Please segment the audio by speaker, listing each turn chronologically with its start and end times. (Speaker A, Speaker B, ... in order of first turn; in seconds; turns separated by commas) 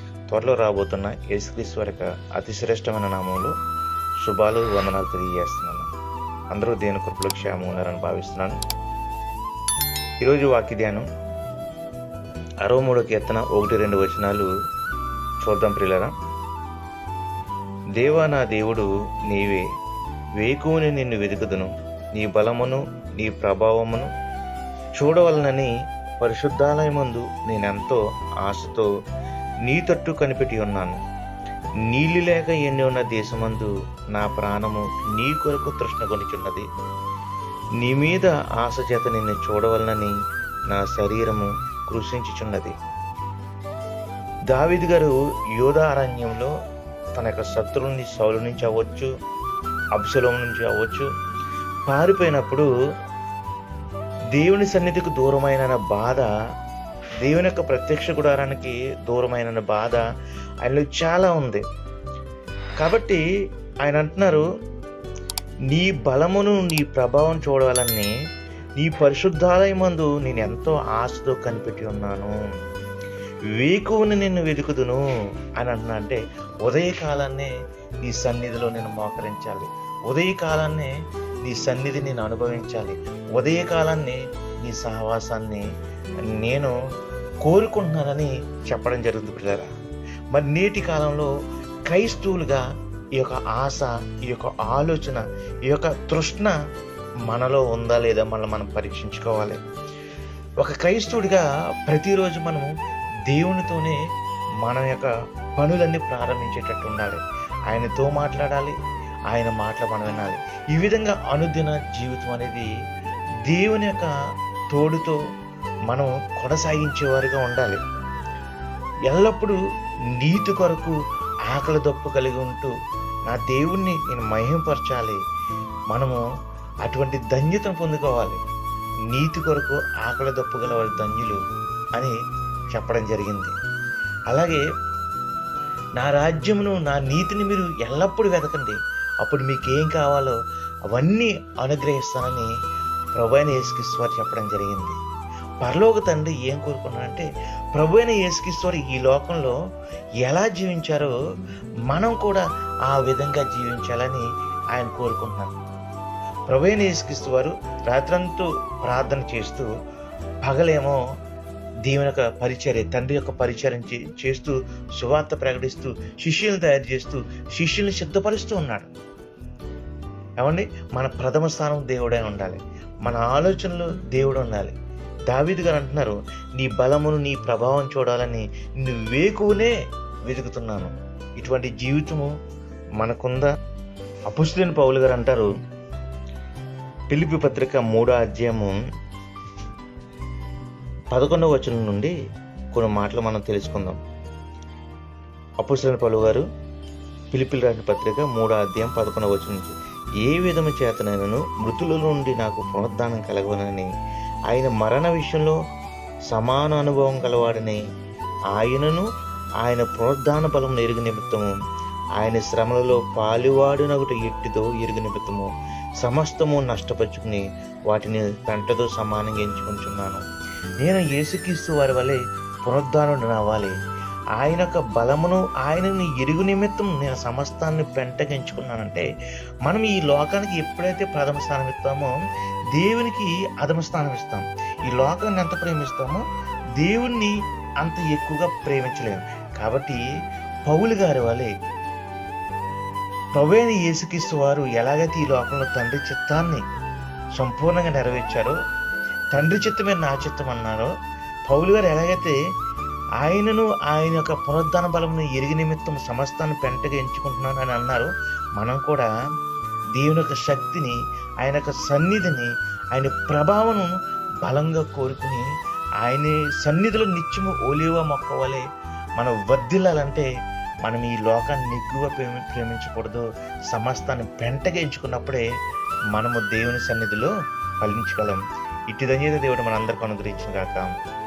Speaker A: 0.3-3.5, Speaker A: 4.2-5.9, Speaker A: 6.5-8.6, Speaker A: 10.2-11.1, Speaker A: 12.6-14.5, Speaker A: 15.4-16.1, Speaker A: 18.0-19.7, Speaker A: 20.4-24.1, Speaker A: 25.0-28.9, Speaker A: 29.7-31.0, Speaker A: 31.9-36.7, Speaker A: 37.8-40.1, Speaker A: 40.7-42.8, Speaker A: 44.5-46.5, Speaker A: 47.2-49.1, Speaker A: 50.0-51.1, Speaker A: 51.9-52.7, Speaker A: 54.4-56.3, Speaker A: 57.2-60.0, Speaker A: 60.6-61.6, Speaker A: 62.8-63.2, Speaker A: 63.9-64.5, Speaker A: 65.7-68.1, Speaker A: 68.8-72.3, Speaker A: 73.5-75.0, Speaker A: 75.6-77.5, Speaker A: 78.0-80.9, Speaker A: 81.5-85.7, Speaker A: 86.4-86.8, Speaker A: 87.4-89.7, Speaker A: 90.3-91.3, Speaker A: 91.9-92.7, Speaker A: 93.2-96.5, Speaker A: 97.3-99.6, Speaker A: 100.6-102.7, Speaker A: 103.3-104.0, Speaker A: 104.6-108.8, Speaker A: 109.3-112.7, Speaker A: 113.5-114.1, Speaker A: 114.7-115.2, Speaker A: 115.9-117.8, Speaker A: 119.1-119.6, Speaker A: 120.2-121.0, Speaker A: 121.5-122.7, Speaker A: 123.3-125.2, Speaker A: 125.9-126.2, Speaker A: 126.8-128.4, Speaker A: 129.1-131.4, Speaker A: 132.7-133.5, Speaker A: 134.3-134.6, Speaker A: 136.0-140.4, Speaker A: 140.9-142.5, Speaker A: 143.2-145.0, Speaker A: 145.6-149.6, Speaker A: 150.2-151.2, Speaker A: 151.9-155.6, Speaker A: 156.5-159.7, Speaker A: 160.4-161.0, Speaker A: 161.9-168.9, Speaker A: 170.4-174.8, Speaker A: 175.3-179.7, Speaker A: 180.3-182.3, Speaker A: 183.0-183.5, Speaker A: 184.3-185.5, Speaker A: 187.1-188.8, Speaker A: 191.1-192.2, Speaker A: 192.7-194.0, Speaker A: 195.6-196.4, Speaker A: 197.3-203.9, Speaker A: 204.5-205.6, Speaker A: 206.3-207.8, Speaker A: 208.5-209.1, Speaker A: 209.6-211.6, Speaker A: 212.2-215.5, Speaker A: 216.0-220.2, Speaker A: 220.8-223.8, Speaker A: 224.4-229.1, Speaker A: 229.7-232.1, Speaker A: 232.8-236.2, Speaker A: 236.8-240.0, Speaker A: 240.7-241.5, Speaker A: 243.3-246.6, Speaker A: 247.4-248.6, Speaker A: 249.3-250.9, Speaker A: 251.5-252.3, Speaker A: 253.2-259.1, Speaker A: 260.0-265.5, Speaker A: 266.0-268.6, Speaker A: 269.2-270.3, Speaker A: 270.9-275.5, Speaker A: 276.1-280.9